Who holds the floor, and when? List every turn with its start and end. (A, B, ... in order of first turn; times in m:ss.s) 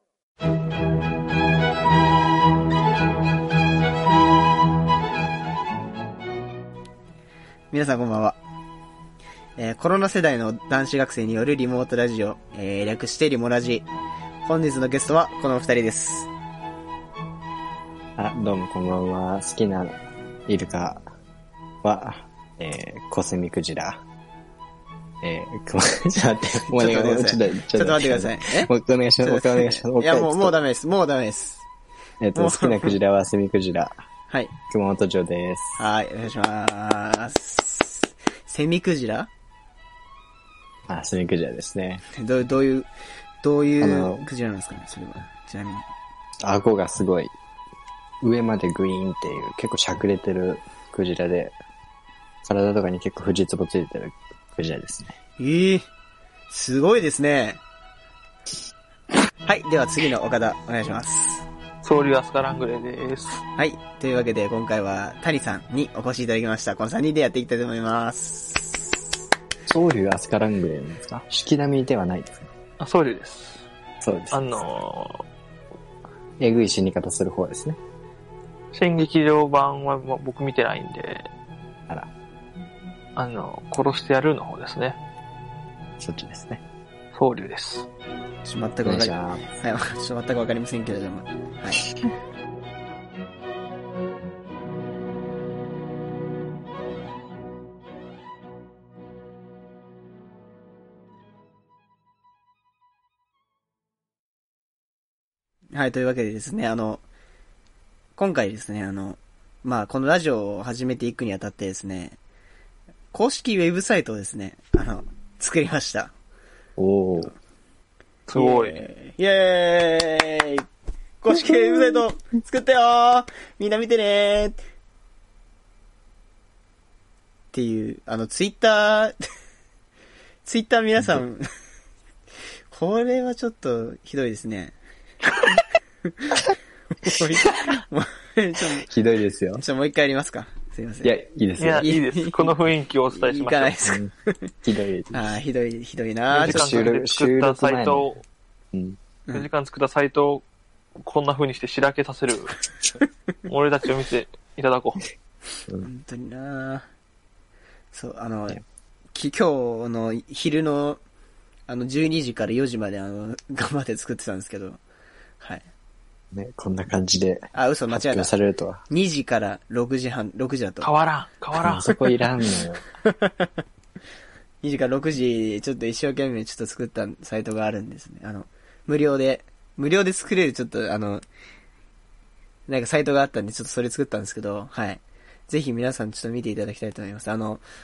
0:07.7-0:08.4 A
0:09.6-0:13.9 A
0:14.4-0:16.3 A
0:18.2-0:21.0 B
0:21.8-0:24.0 B
0:25.2-0:30.5 B
0:26.7-0:28.7 A
0:29.2-0:31.6 A
0:32.2-0:34.0 B
0:32.4-0:32.9 A
0:34.6-0:35.8 B
0:35.8-0:39.3 A
0:40.9-0:42.0 B
0:42.1-0:42.9 A
0:43.4-0:45.8 A
0:43.8-0:44.2 B
0:46.4-0:47.3 B
0:48.2-0:51.5 B
0:52.4-0:55.2 B
0:55.4-0:55.8 A
0:56.5-0:57.6 A
0:59.4-1:01.4 A
1:01.8-1:03.4 C
1:03.6-1:09.0 A
1:09.7-1:12.5 B
1:12.8-1:13.6 C
1:14.0-1:14.6 B
1:14.3-1:15.2 C
1:16.4-1:17.8 B
1:18.7-1:21.3 C
1:23.2-1:25.0 C
1:26.0-1:26.6 B
1:27.1-1:27.9 C
1:28.4-1:31.9 A
1:28.8-1:29.4 B
1:45.7-1:47.0 A
1:48.2-1:52.2 A
1:53.1-1:56.1 A
1:56.8-1:57.3 B
1:58.3-1:58.8 C
1:58.3-2:00.6 A
2:01.2-2:04.6 A
2:07.5-2:09.1 A
2:10.4-2:11.5 A
2:12.7-2:14.7 A
2:17.0-2:18.8 A
2:18.8-2:19.6 B
2:19.6-2:21.1 A
2:21.0-2:21.9 B
2:21.6-2:23.7 C
2:21.8-2:22.5 A
2:23.1-2:24.3 A
2:24.6-2:25.3 B
2:25.1-2:26.9 A
2:26.3-2:28.2 C
2:26.4-2:28.1 B
2:28.7-2:29.0 B
2:29.3-2:30.4 C
2:31.0-2:32.6 C
2:33.4-2:35.1 C
2:35.8-2:36.8 A
2:37.9-2:38.6 A
2:39.1-2:41.0 A
2:41.7-2:44.8 A
2:46.3-2:48.8 B
2:47.5-2:48.3 A
2:48.9-2:50.9 A
2:50.8-2:52.1 C
2:51.6-2:52.8 B
2:53.1-2:53.5 A
2:54.6-3:01.2 A
3:02.7-3:07.6 A